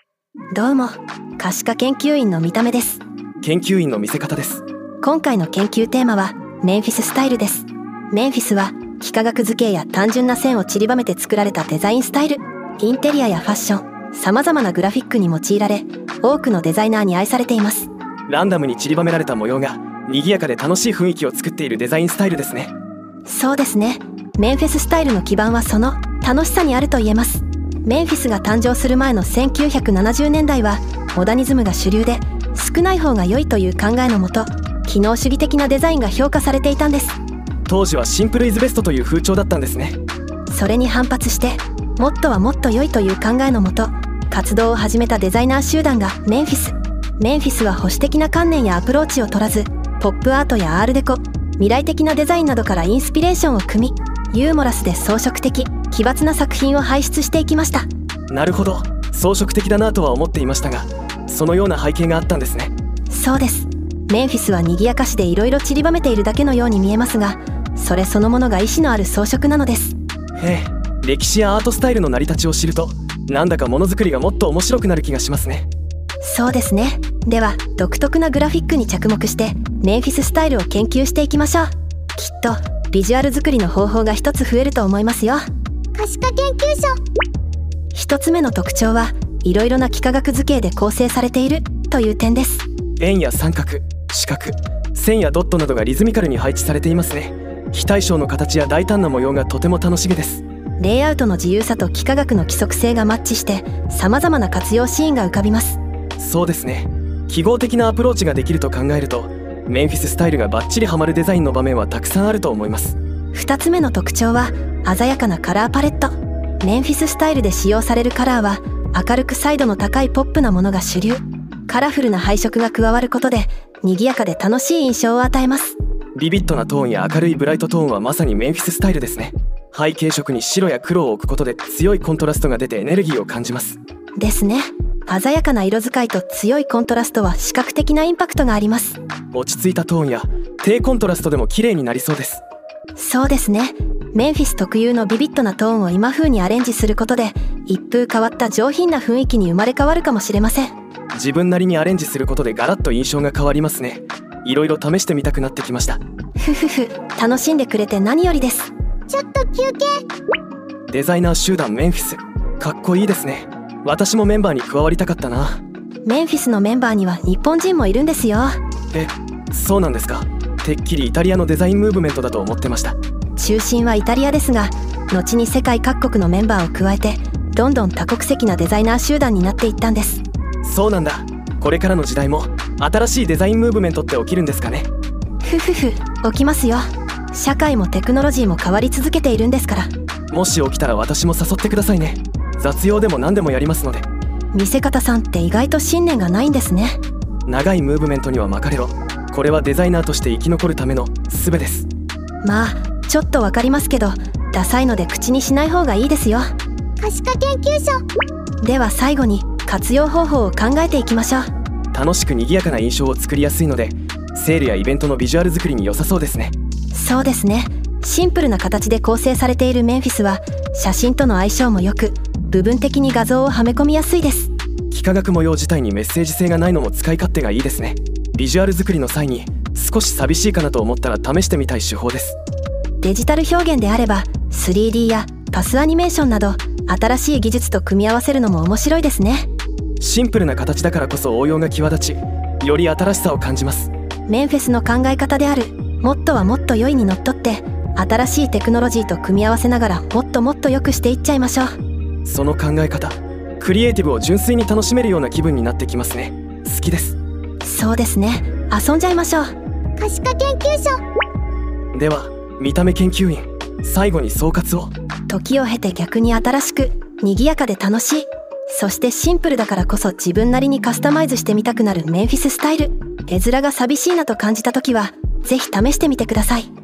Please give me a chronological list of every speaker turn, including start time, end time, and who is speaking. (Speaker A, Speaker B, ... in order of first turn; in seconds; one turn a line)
Speaker A: 0.5-3.0
Speaker B: 3.4-4.6
Speaker A: 5.0-17.9
Speaker B: 18.3-22.7
Speaker A: 23.2-37.2
Speaker B: 37.7-40.0
Speaker A: 40.5-57.9
Speaker B: 58.3-62.7
Speaker A: 63.1-70.0
Speaker B: 70.4-75.7
Speaker A: 76.2-85.5
Speaker C: 86.0-87.0
Speaker A: 87.9-92.7
Speaker B: 93.0-100.4
Speaker A: 100.8-105.8
Speaker B: 106.2-113.0
Speaker A: 113.3-125.8
Speaker B: 126.1-133.8
Speaker A: 134.2-139.0
Speaker B: 139.3-142.4
Speaker A: 142.9-150.7
Speaker B: 151.1-156.0
Speaker A: 156.4-158.7
Speaker C: 159.1-160.0
Speaker B: 160.9-165.6
Speaker A: 166.0-168.6
Speaker B: 168.9-172.9
Speaker A: 173.4-180.2
Speaker B: 180.6-184.9
Speaker A: 185.4-189.9
Speaker B: 190.3-194.1
Speaker A: 194.5-197.0
Speaker B: 197.5-201.9
Speaker A: 202.4-206.5
Speaker C: 207.0-208.0
Speaker A: 208.6-211.5
Speaker B: 211.9-216.5
Speaker A: 216.9-224.5
Speaker B: 224.9-232.4
Speaker A: 233.0-239.5
Speaker B: 240.0-243.9
Speaker A: 244.3-251.7
Speaker B: 252.2-257.2
Speaker A: 257.6-259.5
Speaker C: 260.0-261.0
Speaker B: 261.9-264.9
Speaker A: 265.3-276.7